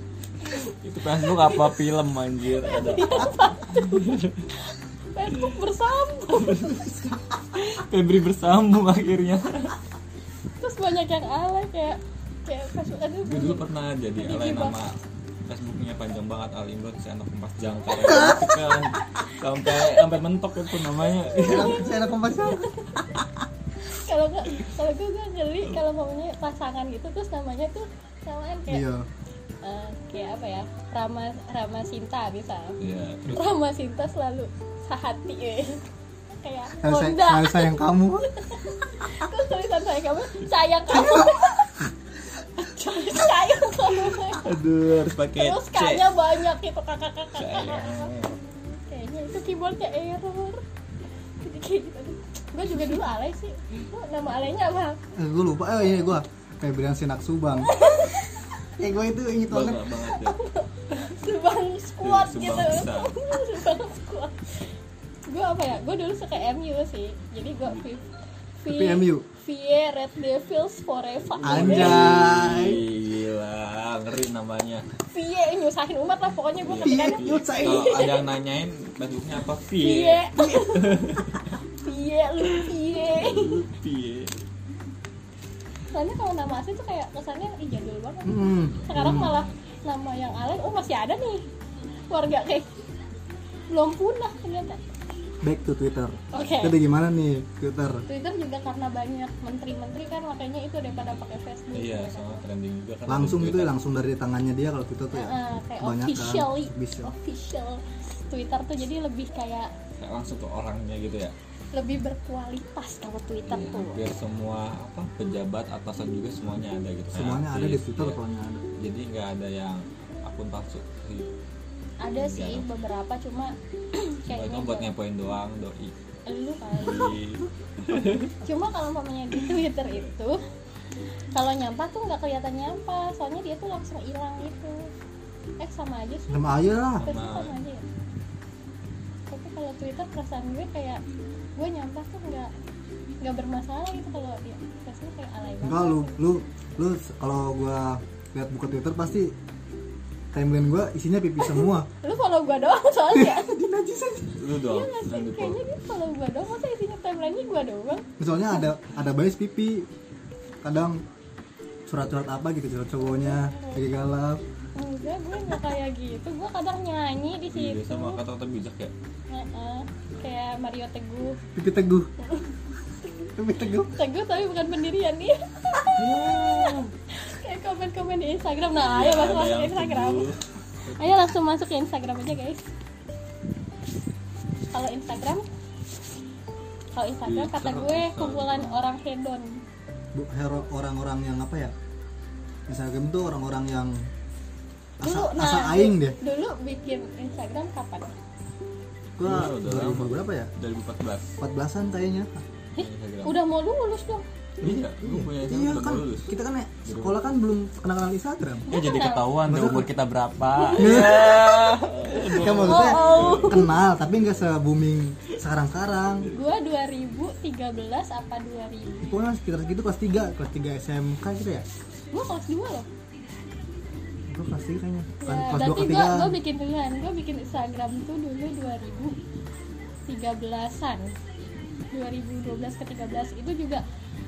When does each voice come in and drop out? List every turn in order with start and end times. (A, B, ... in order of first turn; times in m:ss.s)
0:00.7-0:04.5 A
0:01.2-0:01.7 B
0:02.6-0:06.8 B
0:06.4-0:09.8 A
0:10.6-0:14.8 B
0:13.2-0:21.9 A
0:18.0-0:18.5 C
0:21.3-0:21.7 B
0:21.4-0:23.4 C
0:22.5-0:23.0 B
0:23.8-0:28.8 B
0:28.7-0:29.1 C
0:29.6-0:35.8 B
0:32.8-0:33.4 A
0:36.4-0:41.7 B
0:36.8-0:38.3 C
0:41.0-0:41.3 C
0:42.5-0:44.4 B
0:44.3-0:46.2 A
0:45.3-0:48.2 B
0:47.4-0:48.4 A
0:48.7-0:50.6 B
0:51.4-0:55.0 B
0:55.2-0:57.8 C
0:57.6-0:58.5 B
0:58.7-0:59.9 C
0:59.5-1:00.4 A
1:00.0-1:04.7 B
1:02.0-1:03.2 A
1:05.3-1:12.0 B
1:08.7-1:09.2 C
1:11.4-1:14.8 A
1:11.4-1:12.8 C
1:15.1-1:18.2 B
1:16.6-1:21.5 A
1:16.8-1:18.0 C
1:19.8-1:21.0 B
1:21.7-1:23.6 B
1:23.2-1:24.4 A
1:25.9-1:31.4 B
1:28.2-1:29.4 C
1:28.7-1:29.6 A
1:32.1-1:32.8 B
1:33.7-1:34.8 B
1:35.4-1:38.0 C
1:36.3-1:36.8 B
1:38.1-1:42.4 B
1:41.7-1:43.7 A
1:43.1-1:47.1 C
1:45.1-1:49.7 B
1:50.0-1:51.3 A
1:51.7-1:54.0 B
1:53.5-1:58.2 A
1:57.1-1:58.6 C
1:58.8-2:01.3 A
2:02.0-2:04.9 B
2:02.2-2:02.7 A
2:04.3-2:05.9 A
2:06.2-2:07.2 B
2:06.8-2:08.3 A
2:08.4-2:10.4 B
2:11.3-2:14.9 B
2:15.6-2:17.8 B
2:16.3-2:17.1 C
2:17.0-2:17.6 A
2:19.3-2:21.0 B
2:21.6-2:22.5 B
2:23.2-2:26.2 B
2:25.6-2:29.4 C
2:30.3-2:31.9 C
2:31.5-2:33.5 B
2:33.1-2:34.4 C
2:34.4-2:35.6 A
2:34.6-2:38.0 B
2:38.2-2:39.9 C
2:40.6-2:41.0 C
2:41.9-2:44.4 C
2:43.2-2:43.8 B
2:44.8-2:48.2 B
2:47.5-2:48.9 A
2:49.3-2:51.4 B
2:51.5-2:52.1 C
2:52.2-2:52.5 B
2:53.4-2:53.9 C
2:53.8-3:00.2 B
2:56.0-2:56.9 A
2:58.7-3:00.4 A
3:00.9-3:02.7 B
3:04.7-3:05.5 B
3:06.9-3:09.6 B
3:07.2-3:08.8 A
3:10.1-3:11.7 C
3:12.7-3:14.0 C
3:15.0-3:16.2 C
3:15.0-3:18.2 B
3:19.2-3:20.5 C
3:19.2-3:21.4 A
3:21.4-3:22.4 C
3:22.8-3:24.3 B
3:22.8-3:23.4 A
3:24.6-3:27.2 A
3:24.6-3:28.7 C
3:28.7-3:29.2 B
3:28.7-3:33.7 A
3:29.4-3:29.9 C
3:30.6-3:31.5 B
3:30.8-3:31.7 C
3:32.3-3:36.3 C
3:32.6-3:33.7 B
3:36.3-3:39.1 B
3:39.0-3:41.6 C
3:42.1-3:42.9 B
3:44.3-3:46.3 C
3:45.2-3:49.2 B
3:50.1-3:51.1 B
3:51.9-3:53.8 B